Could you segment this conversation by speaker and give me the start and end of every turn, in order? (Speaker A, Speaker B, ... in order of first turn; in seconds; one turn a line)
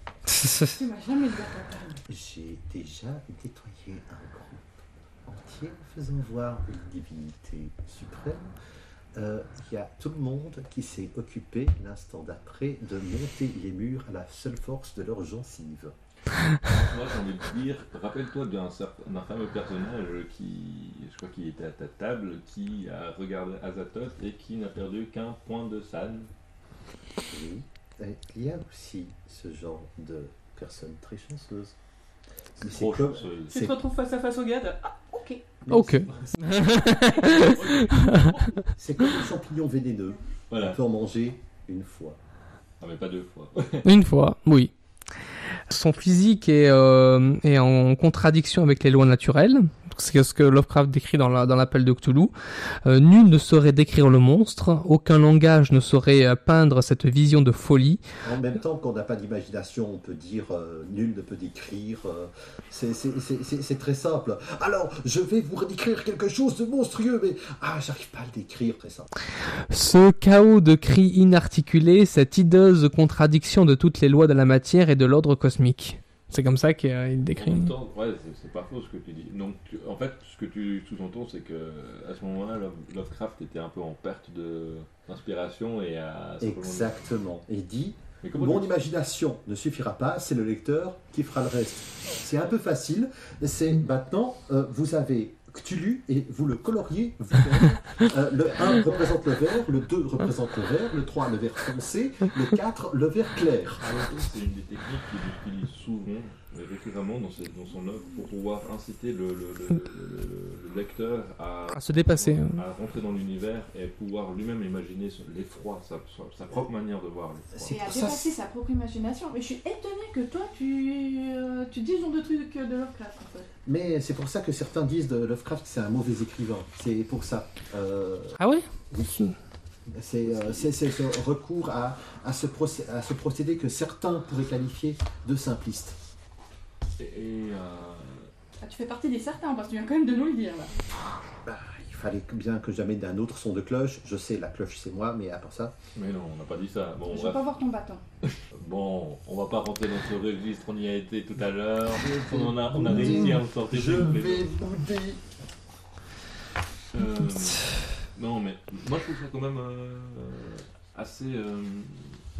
Speaker A: 0.3-0.7
Speaker B: 0.7-2.0
Speaker C: 2.1-8.5
Speaker C: 9.1-15.9
Speaker D: 16.6-26.3
Speaker C: 27.3-31.8
Speaker C: 32.6-33.3
Speaker D: 32.6-33.7
Speaker B: 33.5-35.4
Speaker C: 35.6-36.7
Speaker A: 35.7-38.3
Speaker D: 37.1-38.7
Speaker C: 38.8-42.2
Speaker D: 40.5-40.8
Speaker D: 42.8-43.9
Speaker A: 43.8-44.7
Speaker A: 45.7-52.3
Speaker A: 52.8-58.0
Speaker C: 58.2-69.1
Speaker A: 69.7-77.7
Speaker D: 77.3-87.1
Speaker C: 86.4-103.8
Speaker D: 88.2-88.7
Speaker D: 103.8-117.7
Speaker A: 111.7-112.6
Speaker C: 117.5-118.3
Speaker B: 117.7-123.5
Speaker C: 123.7-128.4
Speaker A: 128.4-128.7
Speaker C: 128.9-129.3
Speaker C: 129.9-136.0
Speaker D: 130.2-130.7
Speaker D: 137.0-138.3
Speaker B: 138.6-140.7
Speaker C: 141.4-145.8
Speaker D: 145.9-147.5
Speaker B: 147.1-148.0
Speaker D: 148.2-154.5
Speaker C: 152.0-155.2
Speaker D: 156.9-162.2